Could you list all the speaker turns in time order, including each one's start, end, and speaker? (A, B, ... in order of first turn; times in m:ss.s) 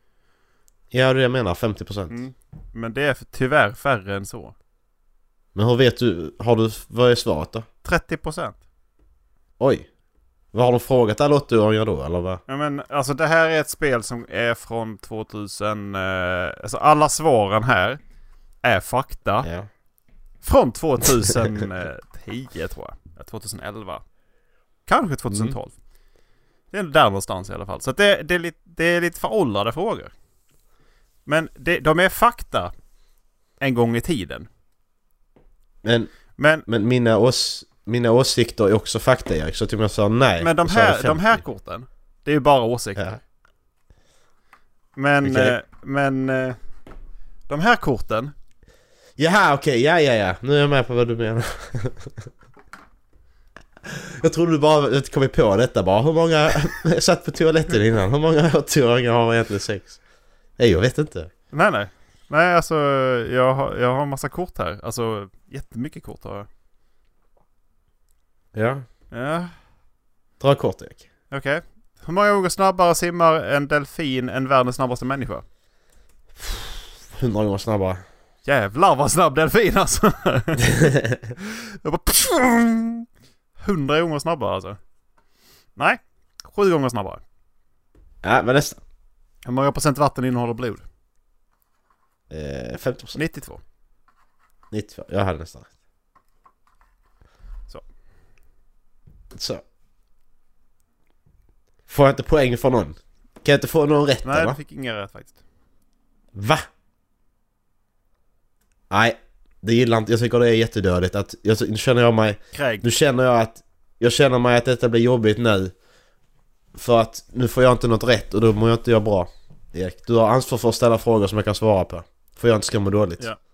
0:00.9-0:02.2 A
0:02.1-0:04.5 B
0:05.6-0:07.7 A
0:07.8-0:08.6 B
0:09.6-0:09.9 A
0:10.5-0:12.4 A
0:12.5-0:18.0 B
0:18.6-0:19.5 B
0:19.4-0:19.7 A
0:20.4-0:24.0 B
0:24.9-0:25.7 B
0:25.3-0:25.6 A
0:26.7-0:30.1 B
0:31.3-0:32.7 B
0:33.6-0:34.5 B
0:35.8-0:36.1 A
0:36.4-0:36.6 B
0:36.6-0:41.4 A
0:40.4-0:43.2 B
0:45.0-0:46.6 B
0:45.2-0:45.6 A
0:47.5-0:48.3 B
0:49.2-0:52.3 A
0:54.0-1:00.0 A
1:00.6-1:01.3 A
1:01.5-1:06.5 B
1:08.5-1:08.8 A
1:09.1-1:09.5 B
1:10.4-1:11.0 A
1:11.3-1:15.4 B
1:16.4-1:18.0 A
1:18.4-1:20.7 B
1:20.8-1:21.2 A
1:21.4-1:23.1 B
1:23.6-1:24.8 B
1:25.8-1:27.2 B
1:28.2-1:28.8 A
1:29.4-1:30.8 B
1:32.3-1:33.2 A
1:33.2-1:33.6 B
1:34.7-1:35.7 A
1:39.3-1:39.6 A
1:41.9-1:44.6 A
1:44.2-1:45.4 B
1:46.3-1:46.7 A
1:48.9-1:55.7 A
1:52.5-1:52.8 B
1:56.7-2:03.3 A